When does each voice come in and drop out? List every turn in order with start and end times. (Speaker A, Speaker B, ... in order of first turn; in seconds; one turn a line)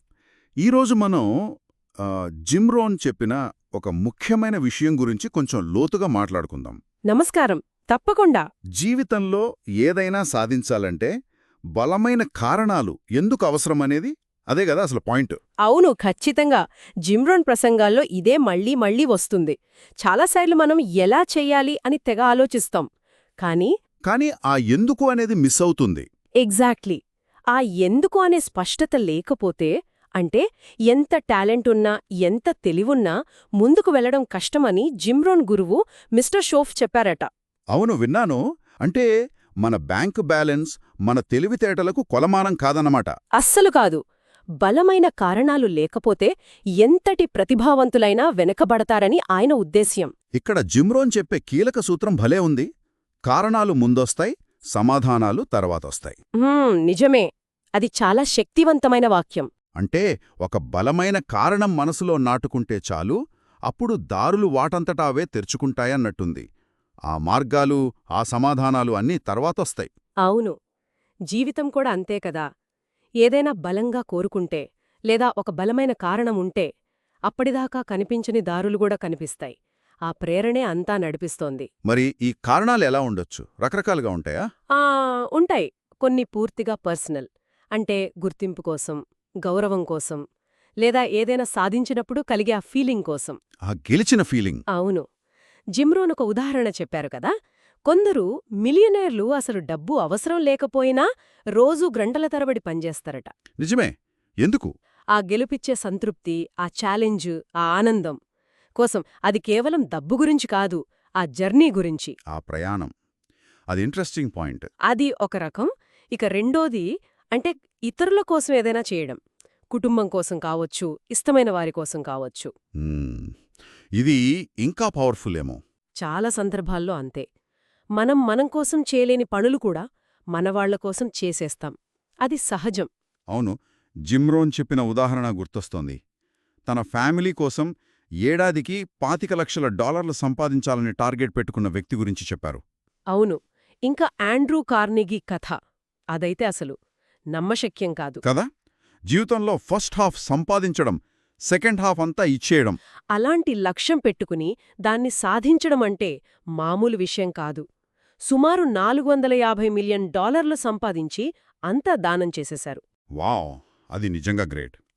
Speaker A: 0.6-1.3
Speaker A: 2.0-6.8
Speaker B: 7.1-8.4
Speaker A: 8.8-11.1
Speaker A: 11.8-15.4
Speaker B: 15.7-22.9
Speaker B: 23.4-23.7
Speaker A: 24.1-26.1
Speaker B: 26.4-27.0
Speaker B: 27.5-37.3
Speaker A: 37.7-39.1
Speaker A: 39.6-43.1
Speaker B: 43.4-44.0
Speaker B: 44.6-46.3
Speaker B: 46.8-50.1
Speaker A: 50.4-52.7
Speaker A: 53.3-56.2
Speaker B: 56.4-59.5
Speaker A: 59.8-63.2
Speaker A: 63.7-66.5
Speaker A: 67.1-69.9
Speaker B: 70.3-70.5
Speaker B: 71.3-72.4
Speaker B: 73.2-76.7
Speaker B: 77.3-79.5
Speaker B: 80.1-81.7
Speaker A: 81.9-84.4
Speaker B: 84.8-90.2
Speaker B: 90.8-93.4
Speaker A: 93.7-94.6
Speaker B: 94.7-95.1
Speaker B: 95.8-97.3
Speaker B: 97.9-101.1
Speaker B: 101.6-103.3
Speaker A: 103.6-103.9
Speaker A: 104.4-104.7
Speaker B: 105.2-108.2
Speaker B: 108.8-112.2
Speaker A: 112.3-112.9
Speaker A: 113.7-114.7
Speaker B: 114.9-119.2
Speaker B: 119.7-122.5
Speaker A: 122.8-123.3
Speaker A: 124.0-125.6
Speaker B: 126.0-127.3
Speaker B: 128.0-129.8
Speaker B: 130.3-132.9
Speaker A: 134.1-136.0
Speaker A: 136.7-137.7
Speaker A: 138.3-142.6
Speaker B: 143.1-143.4
Speaker B: 143.9-145.6
Speaker B: 146.2-146.8
Speaker B: 147.3-148.2
Speaker A: 149.1-151.0
Speaker A: 151.5-152.8
Speaker B: 153.1-157.6
Speaker B: 158.3-162.8
Speaker A: 163.2-164.8